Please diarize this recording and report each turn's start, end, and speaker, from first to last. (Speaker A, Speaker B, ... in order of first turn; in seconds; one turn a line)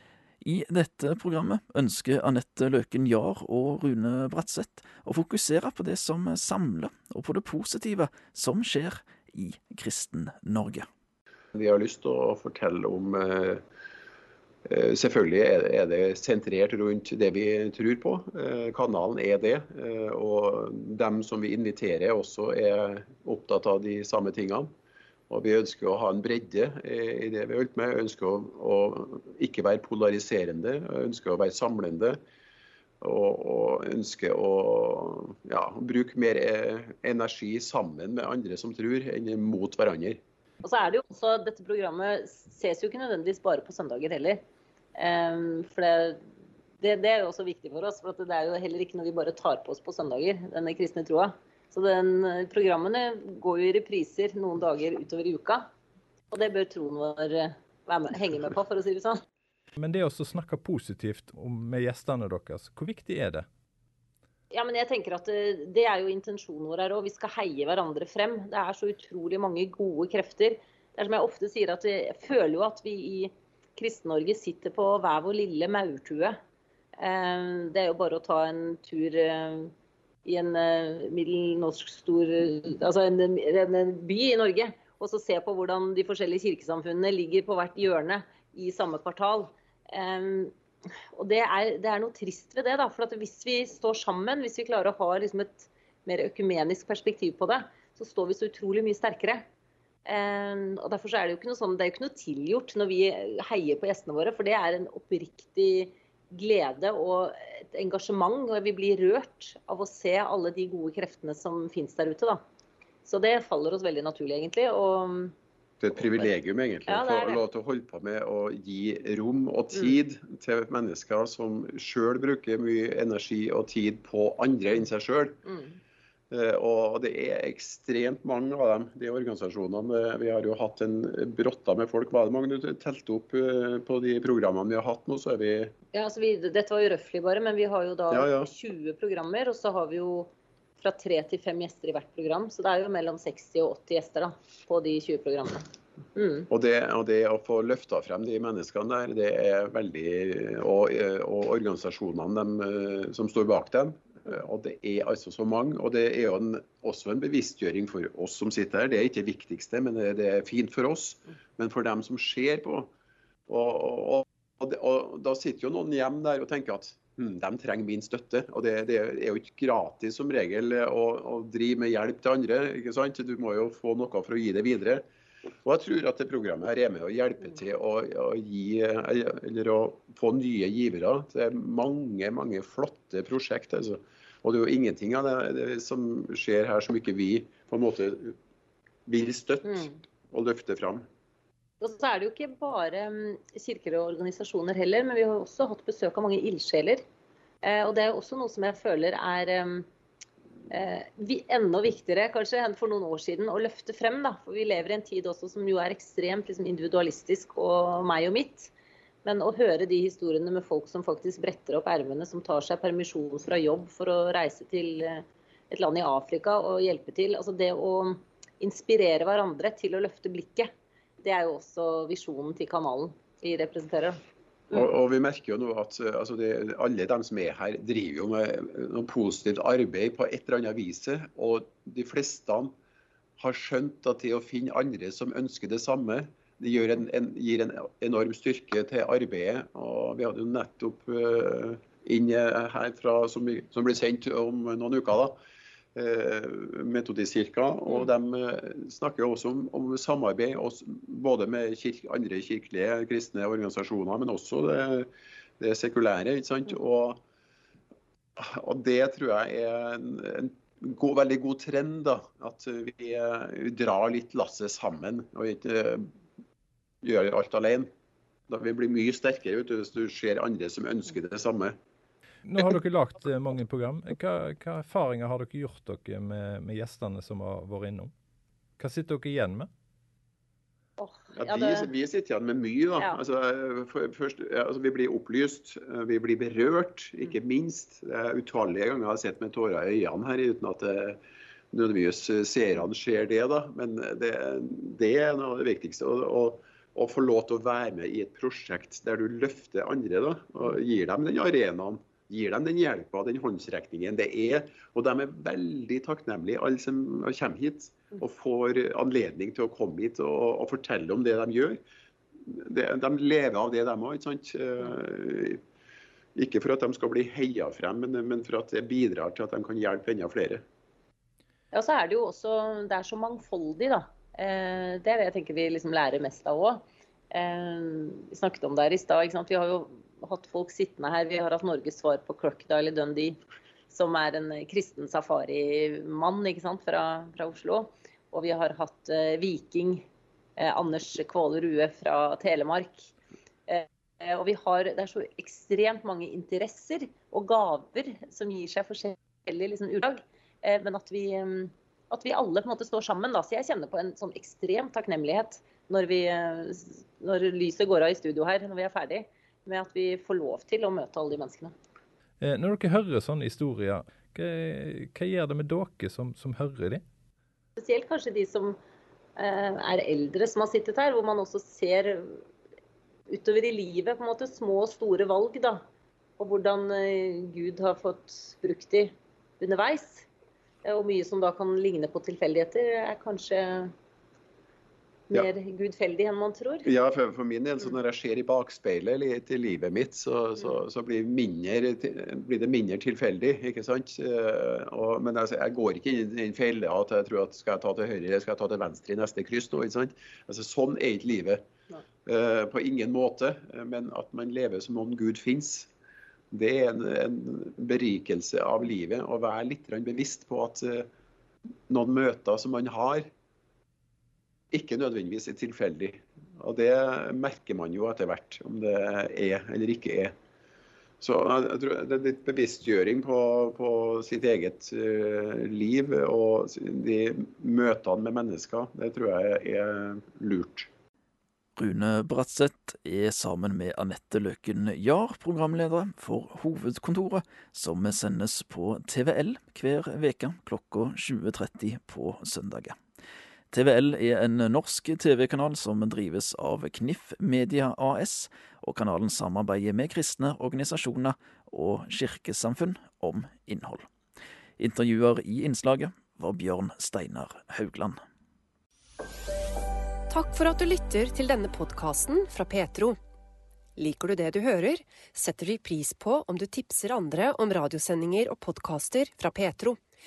Speaker A: 0.4-10.9
Speaker B: 11.5-13.6
Speaker B: 14.7-24.7
Speaker B: 25.3-32.2
Speaker B: 33.0-40.2
Speaker C: 40.6-44.4
Speaker C: 45.0-46.2
Speaker C: 46.8-55.7
Speaker C: 56.3-59.2
Speaker D: 59.8-63.5
Speaker C: 64.5-76.4
Speaker C: 77.0-79.7
Speaker C: 80.2-90.5
Speaker C: 91.2-99.4
Speaker C: 100.1-112.4
Speaker C: 113.1-115.3
Speaker B: 115.8-125.4
Speaker C: 115.9-116.3
Speaker C: 116.9-117.4
Speaker C: 125.5-125.7
Speaker B: 126.3-135.7
Speaker C: 135.9-146.5
Speaker B: 138.1-138.5
Speaker B: 146.5-162.9
Speaker B: 163.5-175.1
Speaker B: 175.6-188.4
Speaker B: 189.1-191.1
Speaker C: 189.7-189.9
Speaker C: 191.8-197.0
Speaker C: 197.6-199.9
Speaker C: 200.7-208.7
Speaker C: 209.2-220.7
Speaker C: 221.2-224.2
Speaker B: 224.7-232.8
Speaker B: 233.4-245.4
Speaker B: 245.9-257.2
Speaker B: 258.4-266.1
Speaker B: 267.0-267.9
Speaker B: 268.5-271.8
Speaker D: 272.4-278.1
Speaker D: 278.8-279.7
Speaker C: 281.0-281.9
Speaker B: 281.3-291.2
Speaker B: 291.7-311.8
Speaker B: 312.5-315.6
Speaker B: 316.4-320.6
Speaker C: 321.7-333.4
Speaker C: 333.9-340.1
Speaker C: 340.6-343.1
Speaker C: 343.7-361.8
Speaker D: 362.4-367.0
Speaker C: 367.8-368.8
Speaker C: 369.4-372.4
Speaker C: 373.3-375.8
Speaker C: 376.4-380.3
Speaker C: 380.8-383.9
Speaker C: 385.3-386.9
Speaker B: 386.8-401.7
Speaker B: 402.2-405.9
Speaker B: 406.5-411.1
Speaker B: 411.9-413.3
Speaker B: 414.7-420.4
Speaker B: 421.2-430.9
Speaker A: 431.8-443.0
Speaker A: 443.7-454.1
Speaker A: 454.8-458.2
Speaker E: 460.3-463.2
Speaker E: 464.0-470.0